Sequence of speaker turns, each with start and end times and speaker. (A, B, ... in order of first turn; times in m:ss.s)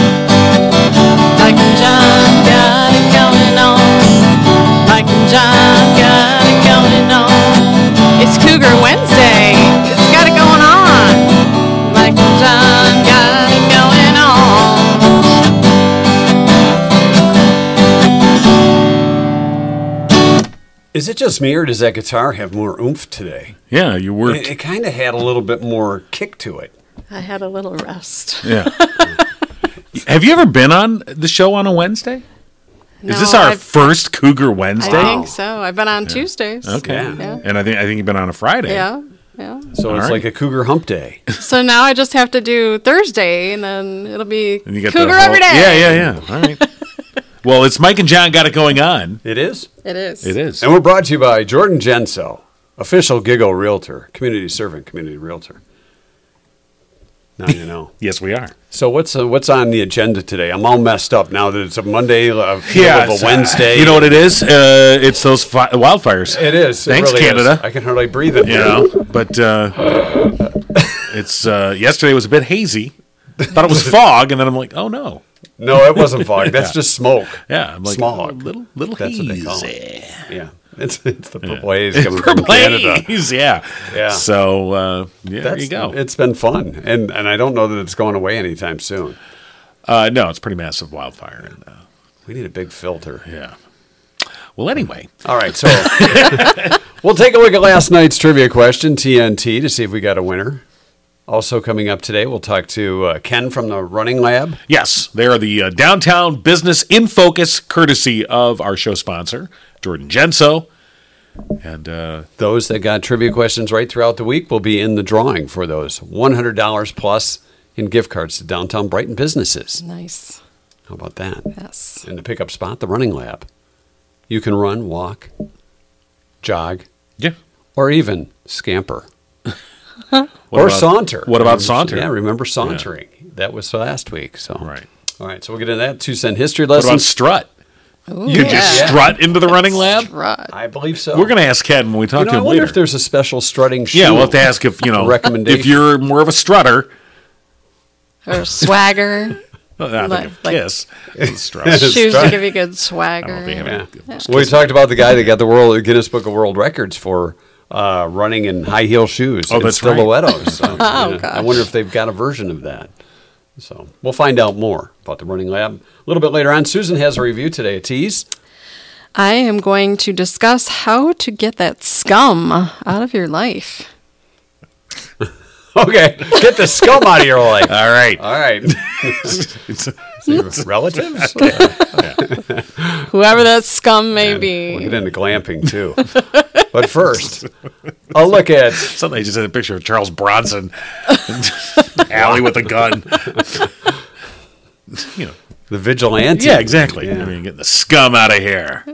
0:01.4-0:15.3 A
0:20.9-0:23.6 B
0:23.7-0:24.5 C
0:24.3-0:26.7 B
0:27.1-0:29.2 A
0:28.4-0:28.8 C
0:29.9-0:32.2 C
0:33.0-0:33.7 A
0:33.1-0:35.2 C
0:34.8-0:37.4 A
0:34.8-0:35.3 B
0:36.1-0:38.9 C
0:36.8-0:37.3 B
0:38.7-0:39.7 A
0:39.8-0:41.2 B
0:39.9-0:40.2 C
0:41.4-0:46.7 A
0:44.7-0:46.6 C
0:47.4-0:49.2 C
0:49.2-0:49.7 B
0:49.8-0:50.3 A
0:50.2-0:50.7 C
0:50.6-0:55.6 B
0:57.4-0:57.9 B
0:58.0-0:58.5 C
0:58.7-1:04.2 B
1:02.7-1:07.6 C
1:06.3-1:08.9 B
1:08.4-1:10.3 C
1:11.0-1:15.2 C
1:15.6-1:18.4 B
1:16.3-1:16.8 C
1:17.5-1:20.3 C
1:19.0-1:19.7 B
1:20.3-1:23.1 B
1:21.4-1:26.0 C
1:23.9-1:24.3 B
1:25.4-1:29.2 B
1:29.9-1:31.7 C
1:32.3-1:33.2 B
1:33.3-1:33.6 C
1:34.6-1:36.8 C
1:35.2-1:40.6 B
1:41.3-1:44.6 B
1:44.7-1:50.7 C
1:51.6-1:52.3 C
1:52.4-1:59.8 B
1:59.8-2:00.4 A
2:00.9-2:01.5 B
2:01.6-2:02.0 A
2:02.0-2:03.5 B
2:04.3-2:05.3 B
2:06.4-2:06.8 B
2:07.8-2:09.1 B
2:10.5-2:12.1 C
2:10.5-2:14.7 B
2:14.6-2:14.9 C
2:15.2-2:17.1 B
2:16.7-2:17.5 C
2:18.1-2:20.5 A
2:18.3-2:19.2 B
2:18.3-2:20.1 C
2:20.5-2:21.3 B
2:21.1-2:22.8 C
2:22.2-2:25.8 B
2:23.9-2:26.9 C
2:28.3-2:29.4 A
2:29.8-2:32.4 C
2:30.0-2:30.6 A
2:31.2-2:32.4 B
2:31.7-2:33.7 A
2:33.2-2:35.1 C
2:33.6-2:42.9 B
2:39.5-2:40.8 C
2:40.8-2:41.6 A
2:43.6-2:48.3 B
2:49.2-2:53.9 A
2:55.7-2:59.5 B
2:57.6-2:58.2 C
2:59.0-3:02.2 C
3:00.2-3:03.0 B
3:03.0-3:05.0 A
3:04.2-3:06.1 B
3:06.6-3:07.5 B
3:08.1-3:08.9 B
3:08.8-3:13.7 C
3:12.1-3:12.6 B
3:15.0-3:15.4 C
3:15.7-3:17.3 B
3:16.3-3:18.8 C